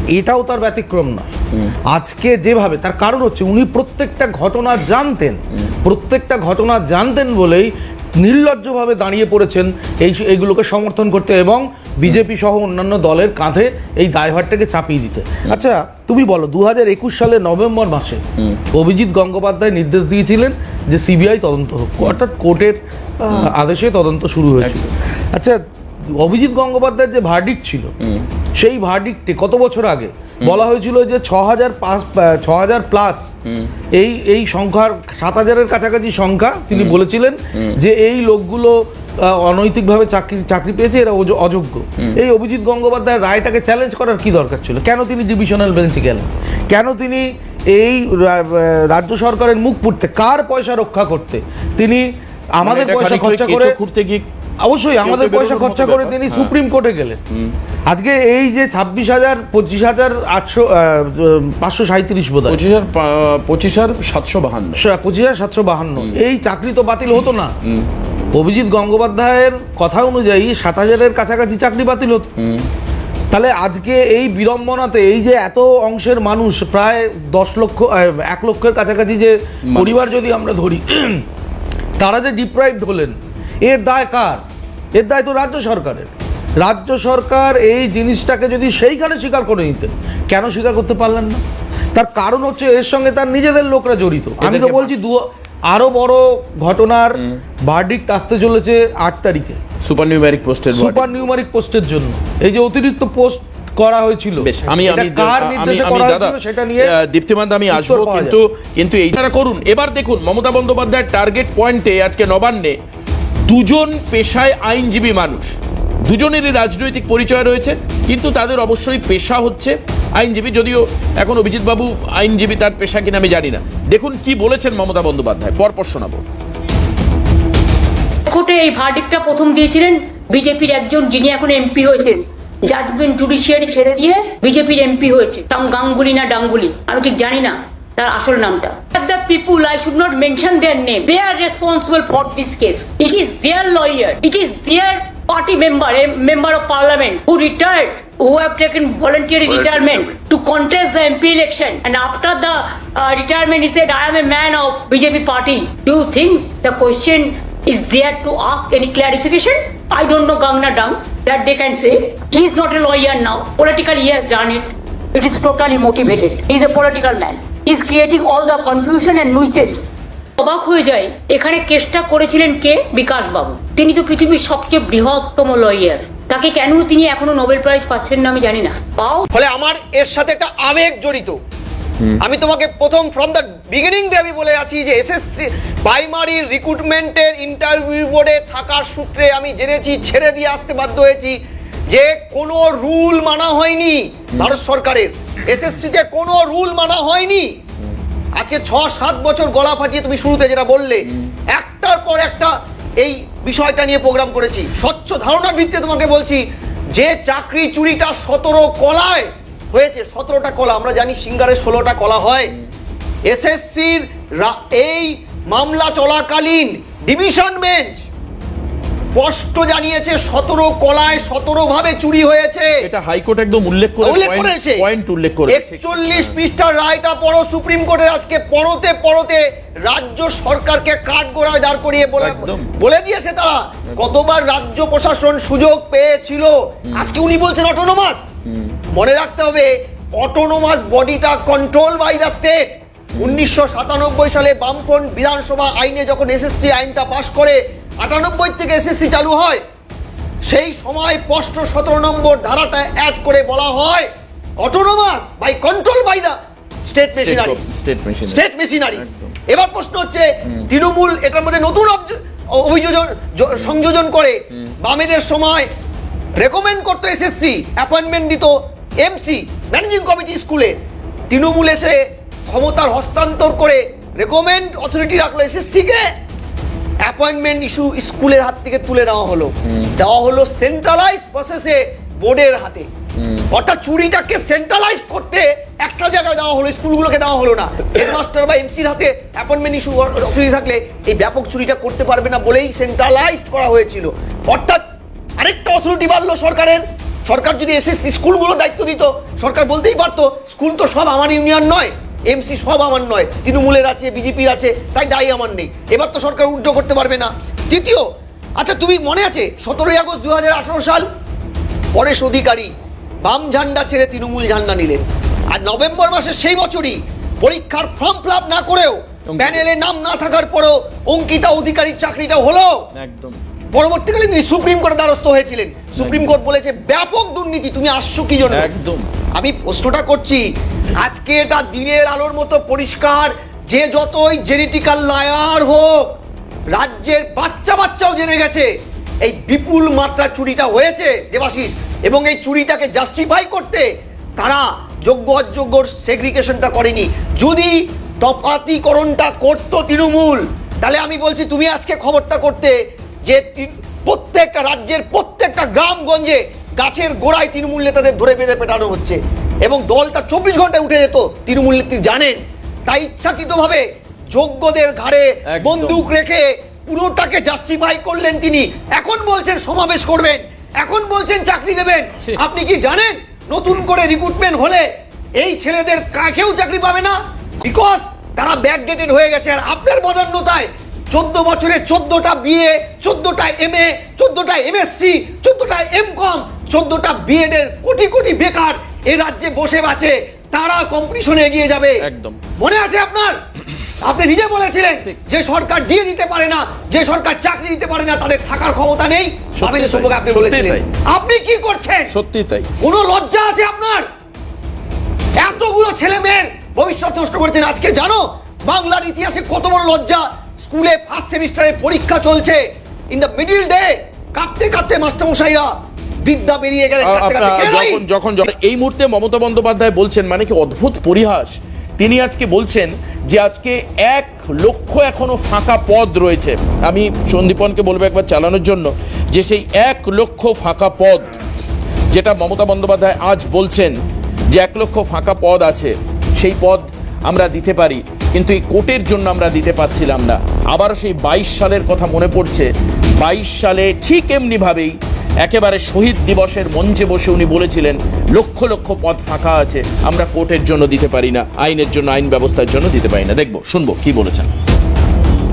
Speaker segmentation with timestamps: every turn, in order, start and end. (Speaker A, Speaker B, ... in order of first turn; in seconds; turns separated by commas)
Speaker A: 0.1-1.3, Speaker A: 1.9-27.9, Speaker B: 24.6-24.9, Speaker B: 28.0-28.3, Speaker A: 28.6-33.3, Speaker B: 33.4-33.7, Speaker A: 33.9-53.8, Speaker B: 36.7-37.0, Speaker B: 52.6-54.2, Speaker A: 54.6-57.2, Speaker B: 55.0-56.5, Speaker A: 57.9-62.6, Speaker B: 62.5-64.8, Speaker A: 64.8-67.5, Speaker B: 67.6-67.9, Speaker A: 68.3-72.3, Speaker B: 72.4-72.7, Speaker A: 73.3-81.2, Speaker B: 79.7-80.0, Speaker A: 82.0-84.4, Speaker A: 84.9-91.4, Speaker A: 91.9-99.6, Speaker B: 94.4-95.0, Speaker B: 97.2-97.4, Speaker B: 99.8-101.3, Speaker A: 100.7-106.9, Speaker B: 104.4-112.8, Speaker A: 107.7-108.4, Speaker B: 113.5-115.5, Speaker B: 116.1-126.2, Speaker C: 128.3-179.2, Speaker B: 149.5-150.1, Speaker D: 179.3-181.4, Speaker D: 182.2-197.5, Speaker D: 198.3-212.5, Speaker D: 213.3-218.0, Speaker D: 219.1-222.8, Speaker B: 222.8-226.4, Speaker D: 224.0-224.8, Speaker D: 225.5-238.2, Speaker B: 232.2-232.7, Speaker B: 236.9-237.2, Speaker B: 238.5-238.8, Speaker D: 238.9-249.6, Speaker D: 250.5-257.7, Speaker B: 257.1-259.3, Speaker D: 258.2-265.7, Speaker D: 266.4-270.8, Speaker D: 271.3-276.1, Speaker D: 277.0-282.9, Speaker B: 279.6-279.9, Speaker B: 283.2-283.5, Speaker D: 283.5-294.8, Speaker D: 295.4-308.1, Speaker D: 308.6-311.1, Speaker D: 311.9-312.7, Speaker D: 313.2-322.8, Speaker B: 319.3-319.7, Speaker B: 322.9-323.4, Speaker D: 323.7-328.7, Speaker B: 326.0-326.3, Speaker B: 328.5-329.1, Speaker D: 329.3-330.4, Speaker D: 331.0-336.1, Speaker D: 336.7-338.7, Speaker D: 339.2-392.0, Speaker B: 365.5-366.1, Speaker B: 392.0-392.4, Speaker D: 392.6-393.4, Speaker D: 394.0-402.1, Speaker B: 399.6-400.9, Speaker B: 402.1-402.7, Speaker D: 402.8-404.1, Speaker D: 405.4-415.7, Speaker D: 416.2-418.0, Speaker B: 417.0-431.3, Speaker B: 432.1-434.0, Speaker B: 434.5-454.5